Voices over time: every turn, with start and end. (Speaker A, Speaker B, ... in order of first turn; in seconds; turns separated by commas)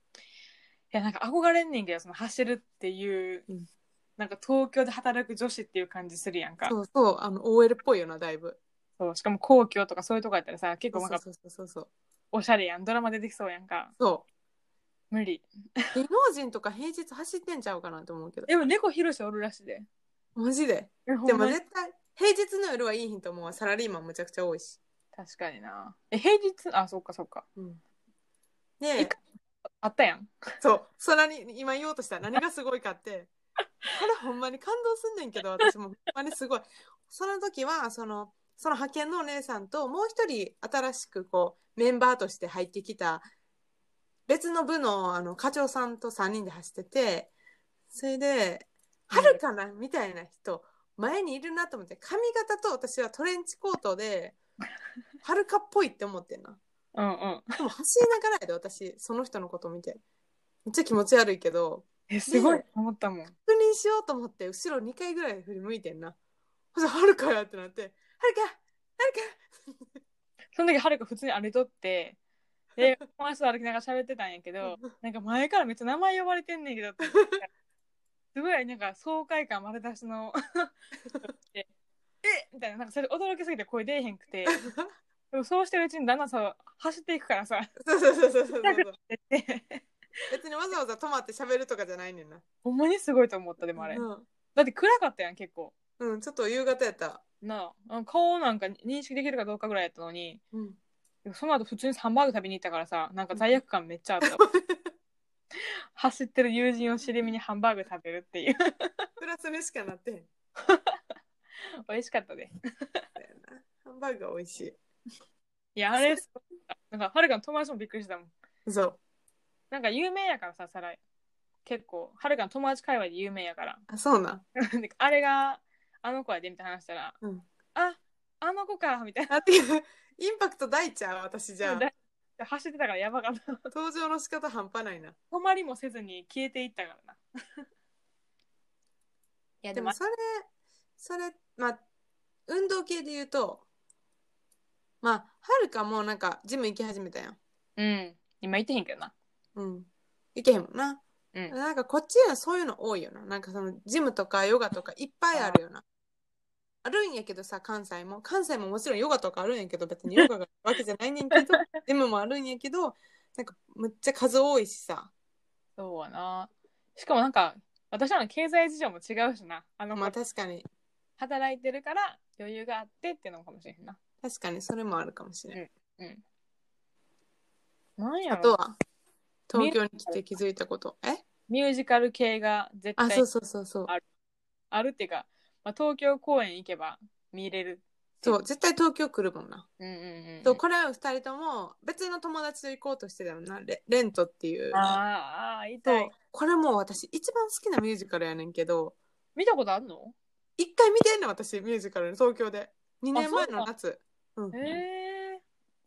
Speaker A: 0.9-3.5, Speaker A: 4.2-6.8, Speaker B: 6.7-8.6, Speaker A: 9.0-11.2, Speaker B: 10.9-11.9, Speaker A: 12.3-13.9, Speaker B: 14.0-14.3, Speaker A: 15.1-15.4, Speaker B: 15.9-18.5, Speaker A: 18.5-19.9, Speaker B: 20.4-24.8, Speaker A: 21.1-21.6, Speaker A: 25.1-27.5, Speaker B: 28.8-29.1, Speaker A: 29.8-30.5, Speaker B: 30.6-33.3, Speaker B: 33.9-43.2, Speaker B: 44.3-47.3, Speaker B: 47.9-54.4, Speaker A: 49.1-49.4, Speaker B: 55.2-56.6, Speaker A: 57.0-57.5, Speaker B: 57.6-60.0, Speaker B: 60.7-62.6, Speaker A: 62.1-63.3, Speaker B: 63.5-66.2, Speaker B: 66.8-69.5, Speaker A: 70.5-72.2, Speaker A: 72.8-77.5, Speaker B: 77.1-77.4, Speaker A: 78.3-81.7, Speaker A: 82.2-84.7, Speaker B: 84.5-84.9, Speaker A: 85.3-87.7, Speaker B: 87.8-89.0, Speaker A: 88.6-89.9, Speaker B: 90.3-92.4, Speaker A: 92.6-95.7, Speaker B: 93.8-94.3, Speaker B: 96.0-97.2, Speaker A: 97.4-100.4, Speaker B: 100.5-100.8, Speaker A: 101.2-104.4, Speaker B: 104.2-104.9, Speaker A: 105.6-109.1, Speaker B: 109.2-110.3, Speaker A: 110.6-111.0, Speaker A: 111.9-113.1, Speaker B: 113.2-114.8, Speaker A: 115.8-118.3, Speaker B: 118.7-119.0, Speaker A: 119.7-121.0, Speaker A: 121.7-123.8, Speaker B: 123.9-124.4, Speaker A: 124.6-127.2, Speaker A: 127.8-129.4, Speaker B: 129.3-131.9, Speaker A: 131.6-133.7, Speaker B: 133.7-135.2, Speaker A: 135.3-137.2, Speaker A: 139.6-140.0, Speaker B: 139.7-140.5, Speaker B: 141.0-141.8, Speaker B: 142.5-143.6, Speaker B: 145.0-147.4, Speaker A: 147.8-149.1, Speaker B: 149.6-155.8, Speaker A: 155.3-155.6, Speaker B: 156.8-165.1, Speaker A: 161.3-161.7, Speaker A: 165.8-170.2, Speaker B: 169.9-170.7, Speaker A: 171.2-174.0, Speaker B: 174.2-175.6, Speaker A: 175.5-176.2, Speaker A: 178.0-178.6, Speaker B: 178.3-178.8, Speaker B: 179.5-181.2, Speaker A: 179.6-180.2, Speaker A: 181.5-183.3, Speaker B: 183.0-183.9, Speaker A: 184.7-188.4, Speaker B: 188.2-189.7, Speaker A: 189.8-190.6, Speaker B: 190.4-195.0, Speaker A: 194.7-196.1, Speaker B: 195.8-198.9, Speaker A: 199.4-200.2, Speaker B: 200.6-204.7, Speaker A: 203.1-203.7, Speaker A: 204.5-205.4